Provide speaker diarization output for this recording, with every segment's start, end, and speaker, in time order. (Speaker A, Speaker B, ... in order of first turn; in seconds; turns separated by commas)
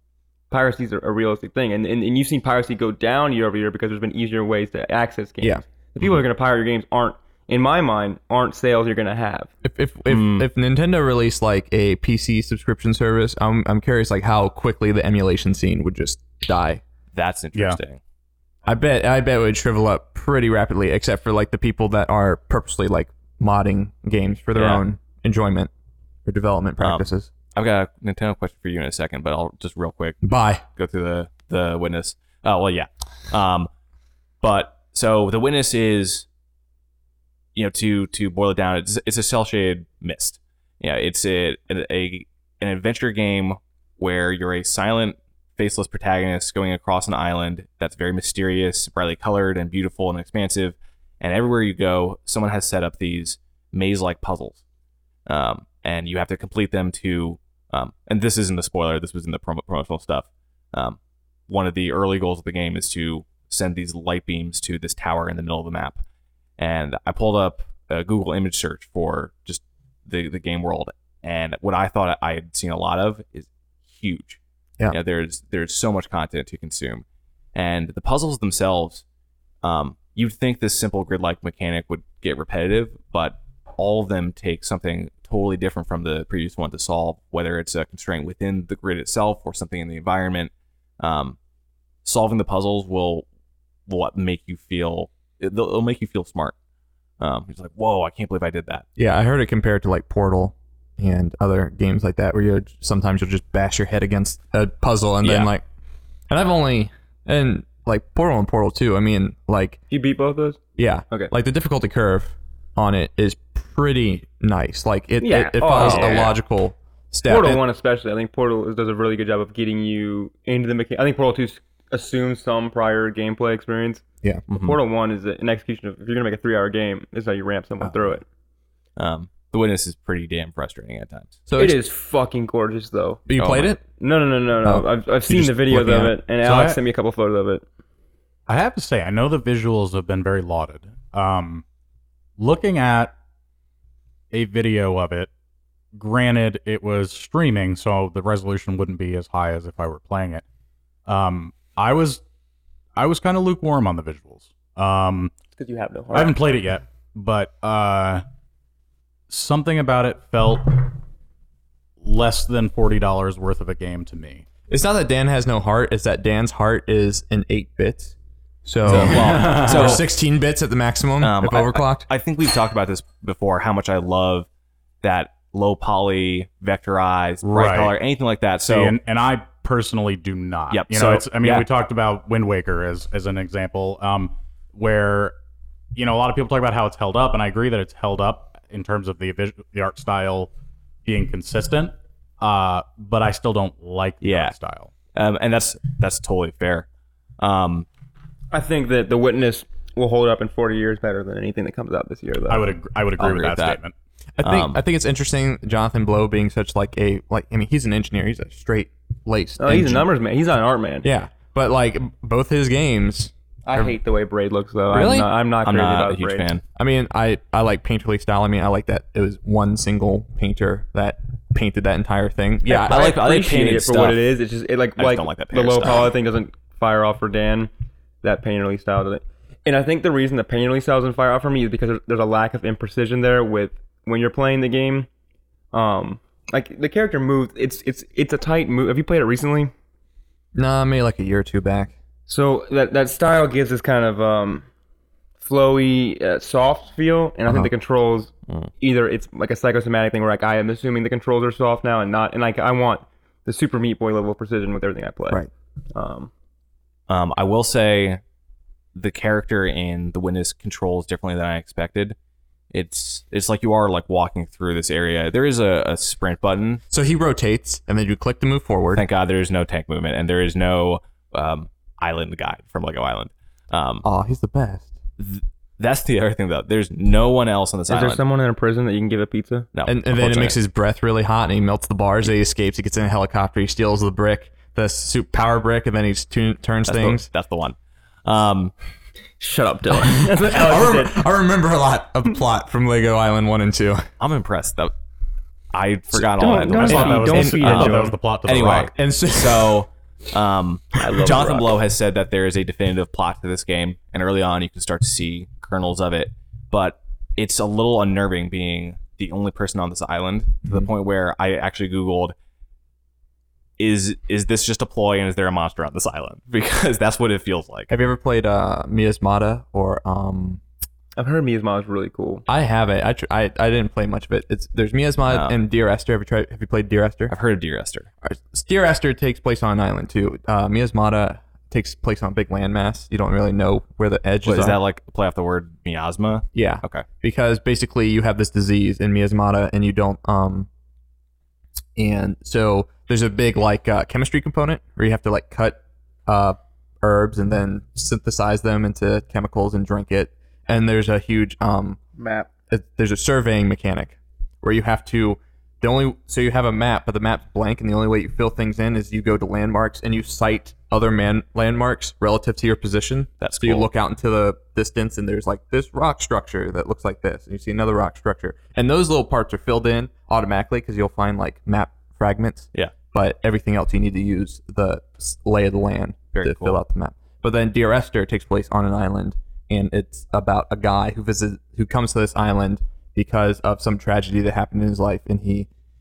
Speaker A: 0.5-9.5, Speaker B: 9.6-16.8, Speaker C: 10.1-10.5, Speaker C: 17.1-18.0, Speaker D: 17.5-17.8, Speaker B: 18.6-25.7, Speaker C: 24.5-24.8, Speaker B: 26.2-27.3, Speaker C: 27.5-30.2, Speaker B: 30.2-30.6, Speaker C: 30.8-33.7, Speaker C: 34.4-36.2, Speaker C: 37.5-54.6, Speaker C: 55.2-66.0, Speaker C: 66.6-79.0, Speaker C: 79.6-91.4, Speaker C: 92.0-93.2, Speaker C: 93.9-96.5, Speaker C: 97.2-98.8, Speaker B: 99.0-105.6, Speaker C: 105.2-105.5, Speaker B: 106.3-109.8, Speaker A: 109.9-110.6, Speaker B: 110.8-117.6, Speaker A: 115.2-116.3, Speaker C: 115.8-116.3, Speaker A: 117.2-128.2, Speaker C: 124.5-124.8, Speaker C: 128.9-131.3, Speaker B: 131.5-131.8, Speaker A: 131.6-133.2, Speaker B: 133.3-133.8, Speaker C: 133.4-133.7, Speaker A: 133.8-137.6, Speaker B: 134.6-136.1, Speaker D: 136.4-136.8, Speaker D: 138.5-141.6, Speaker D: 142.4-143.1, Speaker D: 144.3-145.3, Speaker D: 145.9-150.4, Speaker D: 151.1-152.2, Speaker D: 152.9-155.3, Speaker A: 155.6-156.4, Speaker D: 156.1-158.2, Speaker D: 159.3-160.9, Speaker D: 162.0-164.4, Speaker B: 164.7-172.1, Speaker C: 168.8-170.0, Speaker D: 168.8-170.0, Speaker C: 171.2-174.5, Speaker C: 175.0-178.9, Speaker D: 177.4-177.9, Speaker D: 178.7-185.3, Speaker C: 180.7-181.7, Speaker D: 185.9-190.5, Speaker D: 191.0-194.9, Speaker C: 194.2-194.5, Speaker C: 195.1-196.9, Speaker C: 197.4-197.8, Speaker A: 198.5-202.7, Speaker D: 202.5-203.9, Speaker C: 203.2-203.8, Speaker B: 204.4-210.1, Speaker C: 204.4-204.8, Speaker A: 209.6-211.1, Speaker B: 211.0-213.9, Speaker A: 213.6-216.5, Speaker B: 214.9-215.3, Speaker C: 215.6-216.6, Speaker B: 216.8-223.1, Speaker A: 222.7-227.7, Speaker C: 222.9-224.3, Speaker C: 225.0-226.1, Speaker A: 228.2-235.1, Speaker A: 235.7-239.7, Speaker B: 240.5-241.9, Speaker A: 242.3-244.7, Speaker A: 245.4-255.4, Speaker A: 255.9-256.3, Speaker C: 257.1-258.2, Speaker C: 258.9-262.1, Speaker C: 262.7-266.8, Speaker B: 266.9-269.1, Speaker C: 268.9-274.0, Speaker B: 274.0-274.9, Speaker C: 275.2-278.2, Speaker A: 277.9-279.7, Speaker C: 279.7-280.6, Speaker B: 279.8-287.3, Speaker C: 286.9-288.7, Speaker A: 289.4-291.2, Speaker B: 290.1-294.1, Speaker C: 294.2-294.9, Speaker C: 295.7-312.3, Speaker A: 296.1-298.1, Speaker D: 296.7-298.9, Speaker B: 297.3-297.6, Speaker B: 298.6-299.8, Speaker A: 301.0-301.8, Speaker C: 313.8-317.9, Speaker B: 317.9-320.6, Speaker A: 321.2-322.4, Speaker B: 322.5-327.3, Speaker C: 325.3-325.5, Speaker C: 327.3-328.1, Speaker B: 328.2-334.8, Speaker C: 334.4-337.1, Speaker B: 336.5-340.7, Speaker B: 341.9-352.0, Speaker A: 352.2-352.5, Speaker B: 352.7-385.7, Speaker C: 363.4-363.9, Speaker C: 376.3-376.8